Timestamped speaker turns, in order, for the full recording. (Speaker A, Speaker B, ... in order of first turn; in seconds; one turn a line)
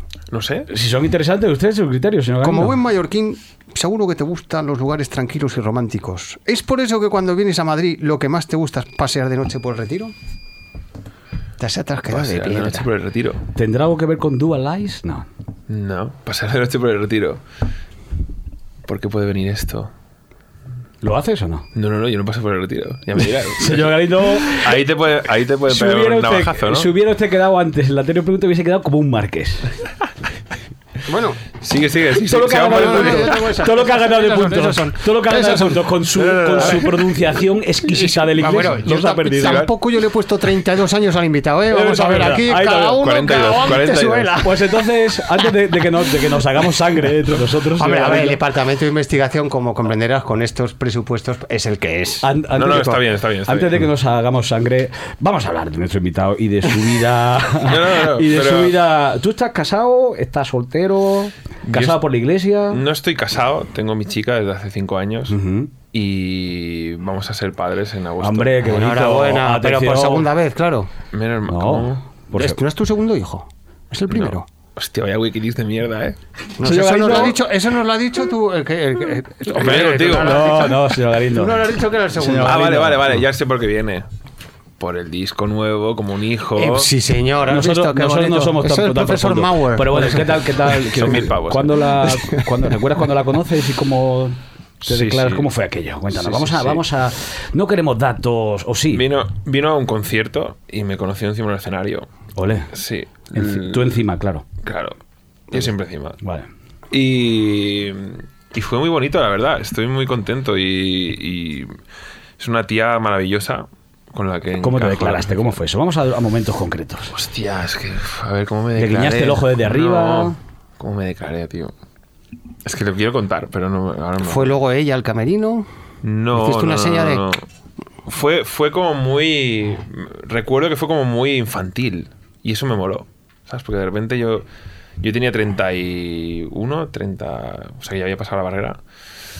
Speaker A: 0.3-0.7
Speaker B: 0.7-2.8
Speaker C: 2.4-10.1
Speaker C: 11.6-12.9
Speaker A: 12.1-13.4
Speaker B: 13.5-15.3
Speaker A: 15.7-17.4
Speaker A: 18.8-19.9
Speaker B: 21.0-21.6
Speaker A: 21.7-26.9
Speaker B: 23.6-24.8
Speaker B: 25.7-29.7
Speaker C: 31.1-31.4
Speaker A: 31.6-33.5
Speaker B: 32.2-39.7
Speaker C: 32.4-35.9
Speaker A: 36.1-37.1
Speaker C: 38.0-44.7
Speaker A: 38.4-39.7
Speaker B: 41.7-43.0
Speaker A: 43.0-44.4
Speaker B: 44.4-48.4
Speaker C: 47.8-52.3
Speaker B: 52.2-62.8
Speaker A: 52.5-53.9
Speaker A: 57.6-58.8
Speaker A: 61.6-62.0
Speaker A: 62.7-65.4
Speaker B: 65.3-65.7
Speaker A: 65.9-68.6
Speaker B: 68.2-70.3
Speaker C: 68.6-70.9
Speaker A: 71.1-72.0
Speaker B: 71.5-72.6
Speaker C: 72.3-74.5
Speaker A: 74.1-76.2
Speaker C: 76.6-82.9
Speaker B: 76.6-77.4
Speaker A: 79.5-80.7
Speaker B: 80.2-81.6
Speaker B: 82.1-83.1
Speaker A: 82.4-84.0
Speaker A: 84.8-86.9
Speaker C: 86.5-91.0
Speaker B: 87.5-99.0
Speaker A: 90.7-91.8
Speaker A: 94.8-95.5
Speaker A: 96.1-96.8
Speaker A: 98.9-102.1
Speaker B: 102.3-102.7
Speaker A: 102.7-104.0
Speaker B: 103.3-104.4
Speaker A: 104.6-105.0
Speaker A: 105.5-106.2
Speaker B: 106.2-106.5
Speaker A: 106.9-111.7
Speaker A: 112.4-115.5
Speaker B: 114.6-117.1
Speaker A: 117.1-121.7
Speaker B: 118.8-120.3
Speaker A: 122.6-124.5
Speaker C: 124.2-125.7
Speaker A: 126.0-127.4
Speaker C: 126.3-127.2
Speaker A: 128.1-134.4
Speaker A: 135.0-138.8